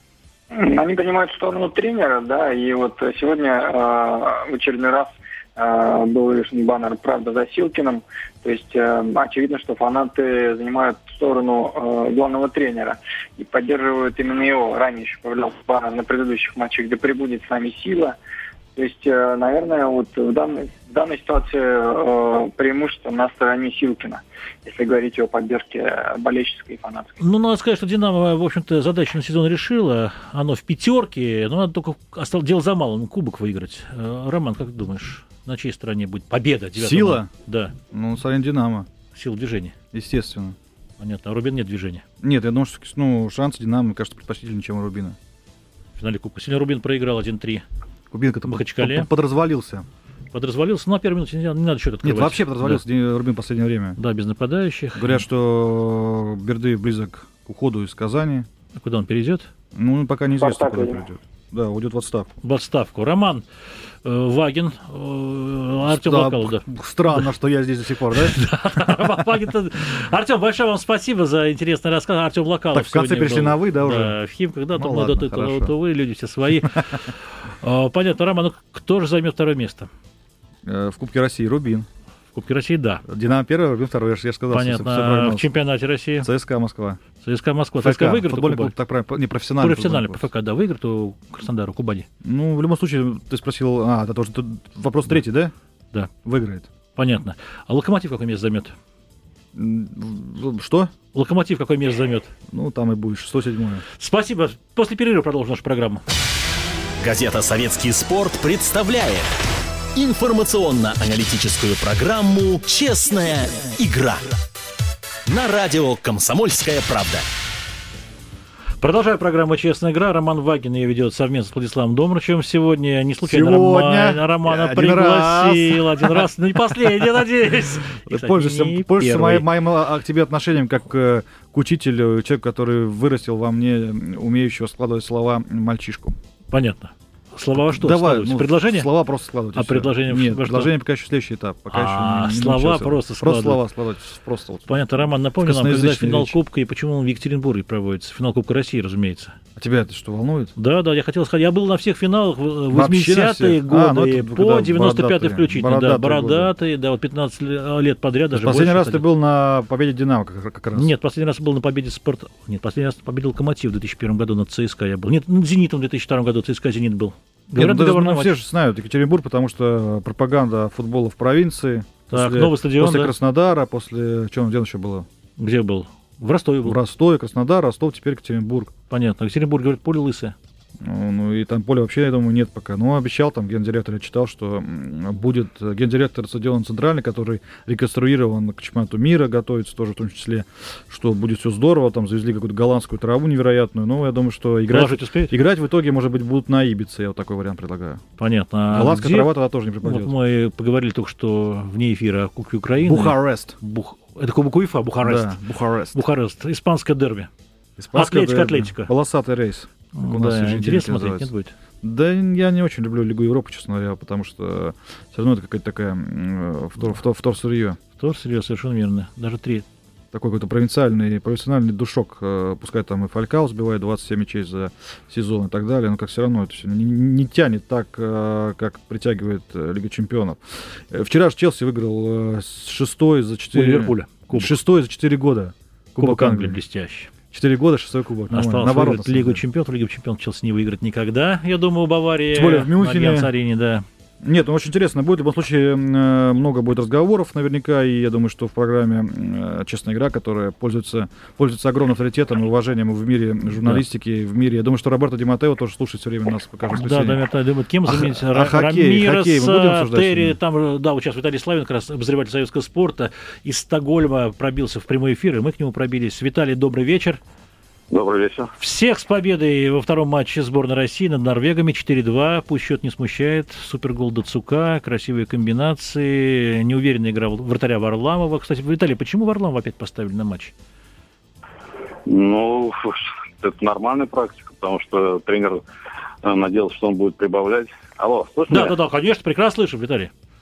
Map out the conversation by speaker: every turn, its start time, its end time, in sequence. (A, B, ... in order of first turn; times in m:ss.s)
0:00.5-0:18.2 A
0:18.8-0:27.2 A
0:27.2-0:37.7 B
0:36.8-0:37.3 C
0:37.9-0:38.9 C
0:39.1-0:39.7 B
0:39.9-0:40.6 C
0:41.0-0:42.0 B
0:42.2-0:45.2 C
0:46.0-0:47.6 B
0:48.1-0:49.8 C
0:48.5-0:49.1 B
0:50.3-0:52.8 B
0:52.0-0:54.0 C
0:54.0-0:55.2 B
0:55.0-0:58.5 C
0:58.7-0:59.5 B
0:59.7-1:02.3 C
1:00.4-1:01.0 A
1:02.4-1:03.4 B
1:04.0-1:06.6 B
1:05.8-1:08.9 C
1:08.2-1:19.9 B
1:12.7-1:14.2 C
1:14.8-1:15.7 C
1:20.6-1:21.9 C
1:22.3-1:23.0 B
1:23.0-1:25.5 C
1:24.5-1:26.3 B
1:26.2-1:27.0 C
1:27.2-1:28.7 B
1:27.8-1:30.2 C
1:29.6-1:32.0 B
1:32.2-1:35.5 C
1:36.2-1:36.7 C
1:37.0-1:38.7 B
1:39.5-1:40.9 C
1:41.1-1:42.3 B
1:42.5-1:43.8 C
1:44.0-1:46.0 B
1:47.0-1:49.3 D
1:49.9-1:54.3 D
1:55.3-1:57.2 D
1:58.8-2:09.5 B
2:03.2-2:07.1 C
2:08.0-2:16.2 C
2:16.5-2:18.9 B
2:17.6-2:26.3 C
2:19.5-2:20.7 B
2:21.7-2:23.6 B
2:24.7-2:29.4 B
2:29.6-2:30.5 C
2:30.6-2:39.0 B
2:32.7-2:36.5 C
2:38.3-2:40.9 C
2:40.7-2:48.3 B
2:47.6-2:55.1 C
2:52.1-2:53.1 B
2:55.4-2:56.8 B
2:56.6-2:58.7 C
2:58.9-3:00.3 B
3:00.8-3:18.0 C
3:14.7-3:15.3 B
3:18.2-3:25.4 B
3:18.7-3:20.1 C
3:22.8-3:23.5 C
3:25.0-3:26.0 C
3:25.9-3:27.3 B
3:27.8-3:31.3 C
3:27.9-3:28.9 B
3:29.9-3:31.5 B
3:31.8-3:37.8 C
3:38.0-3:39.6 B
3:40.1-3:56.6 C
3:53.5-3:54.5 B
3:56.0-3:57.1 B
3:57.3-3:59.4 C
3:58.3-4:03.8 B
4:02.3-4:03.3 C
4:04.2-4:17.2 C
4:16.7-4:27.2 B
4:17.8-4:20.4 C
4:27.9-4:28.5 E
4:28.6-4:40.5 B
4:42.0-4:45.6 E
4:46.2-4:48.7 E
4:48.5-4:50.1 B